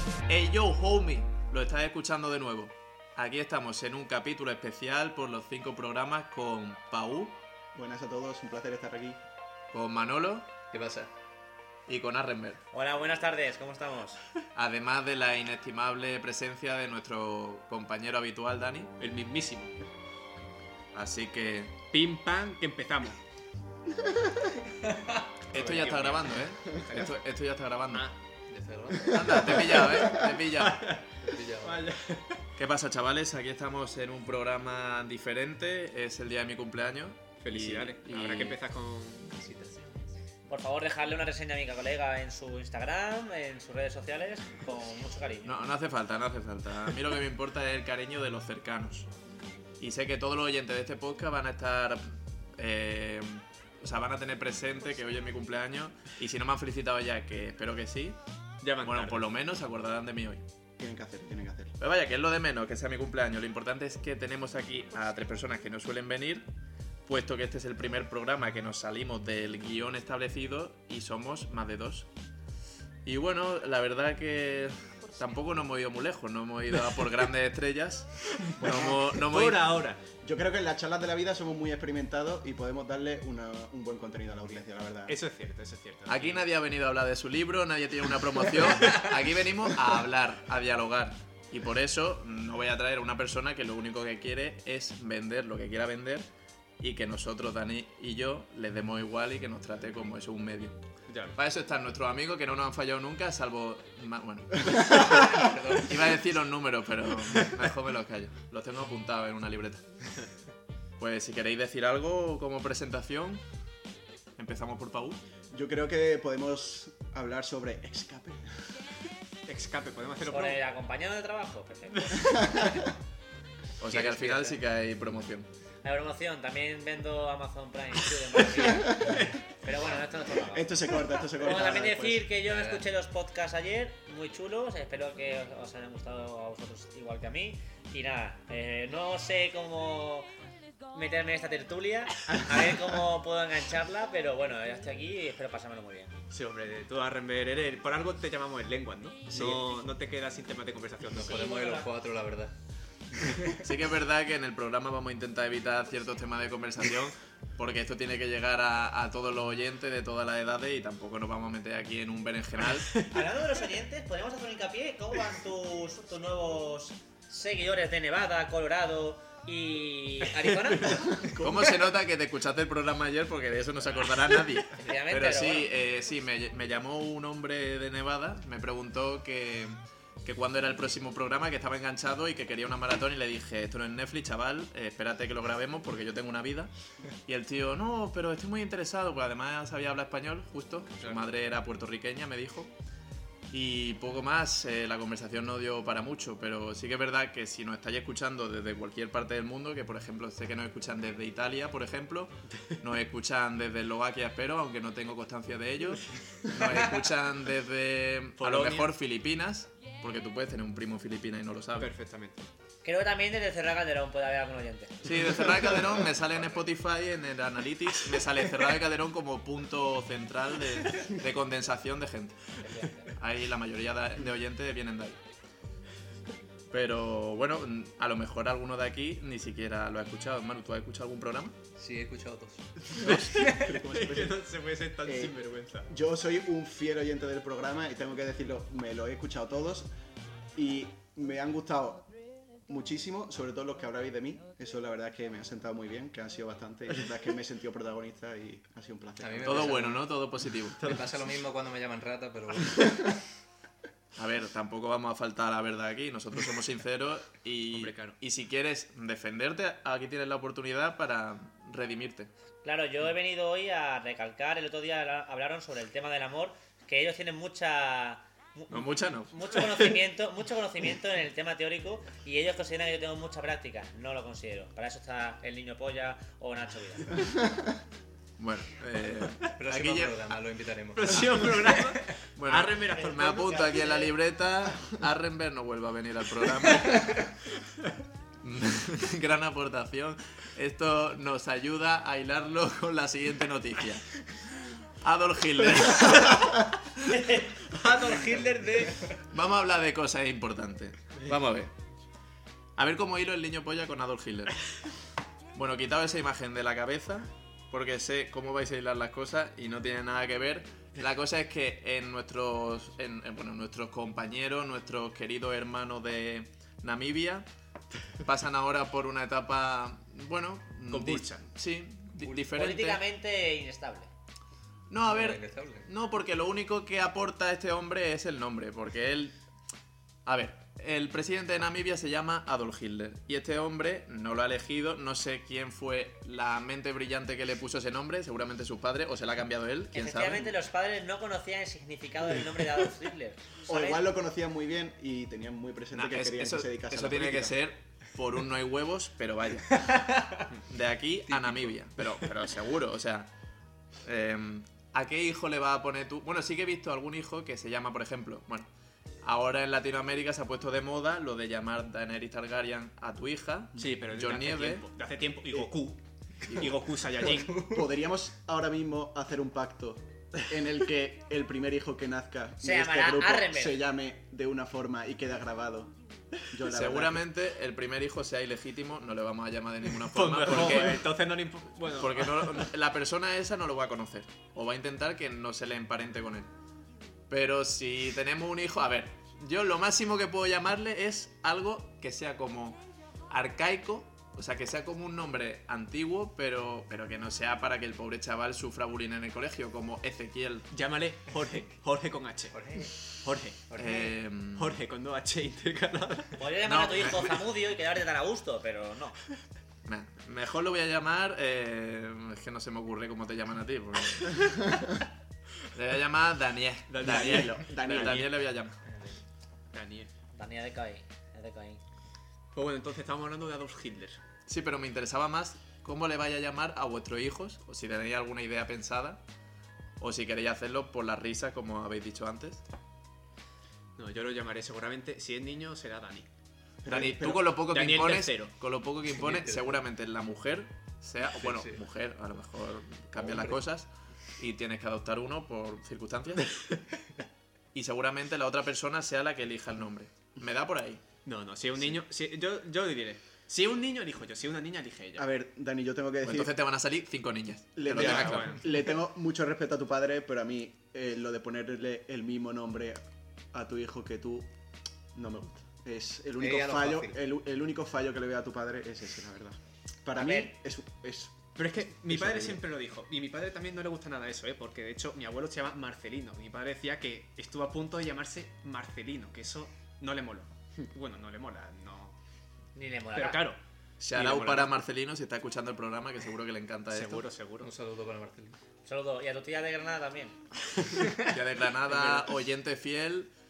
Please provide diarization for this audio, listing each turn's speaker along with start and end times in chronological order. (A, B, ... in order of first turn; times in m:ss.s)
0:00.3-0:07.4 A
0:07.8-0:09.2 B
0:09.7-0:10.6 A
0:10.7-0:11.1 C
0:11.9-0:12.6 A
0:12.7-0:14.2 D
0:14.5-0:18.9 A
0:19.0-0:19.8 E
0:20.9-0:21.8 A
0:21.9-0:23.2 E
0:24.0-0:24.5 B
0:24.9-0:25.1 C
0:25.5-0:27.2 E
0:25.5-0:28.1 A
0:28.5-0:29.2 C
0:29.0-0:30.9 A
0:29.6-0:30.0 E
0:30.5-0:32.4 E
0:31.2-0:31.9 C
0:32.6-0:38.6 A
0:37.4-0:39.9 E
0:40.5-0:45.6 D
0:45.4-0:49.1 A
0:49.8-0:58.2 A
0:58.6-0:59.3 E
0:58.8-1:00.4 A
1:00.8-1:01.7 B
1:01.8-1:06.4 A
1:07.1-1:12.1 A
1:13.0-1:19.8 A
1:18.4-1:20.0 E
1:20.2-1:25.2 B
1:25.1-1:26.5 E
1:26.1-1:36.3 A
1:36.8-1:40.7 A
1:41.1-1:41.3 E
1:41.3-1:49.8 A
1:45.1-1:45.9 C
1:51.0-1:53.4 A
1:54.4-1:55.2 A
1:55.5-1:58.7 B
1:59.4-2:00.6 E
2:00.3-2:02.7 D
2:02.4-2:02.9 B
2:03.8-2:05.5 A
2:03.9-2:04.5 D
2:05.8-2:20.3 D
2:08.6-2:09.2 B
2:09.0-2:09.3 E
2:10.4-2:12.3 B
2:12.4-2:12.9 C
2:20.9-2:26.2 D
2:26.3-2:31.4 E
2:31.2-2:32.6 C
2:31.2-2:31.9 D
2:33.1-2:33.6 C
2:33.6-2:43.0 A
2:43.1-2:51.4 D
2:51.4-3:06.7 A
2:54.7-2:55.7 D
3:07.3-3:12.7 A
3:13.5-3:31.9 A
3:28.4-3:28.9 E
3:31.8-3:32.5 E
3:32.8-3:35.4 D
3:35.0-3:45.2 A
3:42.6-3:43.1 D
3:46.7-3:51.6 A
3:51.8-3:53.5 C
3:53.0-3:55.9 E
3:53.0-3:53.3 A
3:53.4-3:54.4 B
3:55.0-3:55.4 B
3:55.9-3:59.9 B
4:00.5-4:02.1 B
4:02.7-4:09.9 B
4:09.2-4:10.0 C
4:09.4-4:10.8 A
4:10.8-4:13.2 C
4:14.2-4:22.3 A
4:17.7-4:18.2 E
4:22.6-4:37.3 D
4:28.7-4:29.3 A
4:38.4-4:40.3 A
4:39.4-4:42.2 C
4:40.9-4:44.0 E
4:41.1-4:41.6 A
4:42.3-4:47.3 A
4:42.9-4:44.1 D
4:48.4-4:57.1 A
4:57.1-4:57.5 D
4:57.7-4:59.0 E
4:59.3-5:01.7 A
5:02.8-5:04.6 A
5:05.5-5:17.4 A
5:18.2-5:23.0 A
5:20.9-5:21.4 E
5:22.3-5:24.1 D
5:24.9-5:29.4 A
5:25.1-5:25.9 C
5:30.2-5:40.5 A
5:39.9-5:44.0 D
5:43.7-5:47.6 B
5:45.9-5:49.9 A
5:50.7-5:53.3 A
5:51.3-5:51.7 C
5:54.0-5:58.7 A
5:59.2-6:04.8 A
6:03.8-6:07.7 E
6:07.5-6:17.2 B
6:12.6-6:13.8 D
6:16.7-6:21.2 A
6:20.0-6:22.7 E
6:21.9-6:26.5 A
6:27.3-6:40.7 A
6:40.7-6:43.7 E
6:42.5-6:42.9 D
6:43.7-6:44.1 D
6:43.8-6:44.8 A
6:44.6-6:46.4 E
6:46.4-6:49.1 D
6:46.6-6:47.4 A
6:49.8-6:55.0 A
6:55.7-6:58.8 A
6:56.9-6:58.3 E
6:57.0-6:58.2 B
6:59.7-7:00.1 E
7:00.3-7:01.8 D
7:02.5-7:04.2 E
7:04.5-7:09.2 A
7:10.0-7:12.6 A
7:14.0-7:16.3 E
7:16.8-7:17.5 B
7:16.9-7:26.6 A
7:17.6-7:18.5 E
7:19.2-7:19.5 C
7:21.4-7:21.7 C
7:23.1-7:23.6 C
7:27.7-7:31.0 A
7:31.2-7:35.3 E
7:35.2-7:36.5 B
7:36.2-7:38.6 A
7:37.8-7:43.0 B
7:37.9-7:38.8 E
7:43.5-7:44.5 B
7:45.1-7:51.5 B
7:46.4-7:47.1 C
7:50.2-7:50.5 D
7:51.6-8:02.1 E
7:52.1-7:52.6 B
8:02.8-8:03.4 D
8:03.1-8:03.6 E
8:04.0-8:07.3 A
8:04.1-8:04.8 E
8:06.9-8:07.7 E
8:07.6-8:08.6 C
8:08.8-8:10.4 D
8:11.2-8:13.3 A
8:11.9-8:12.3 E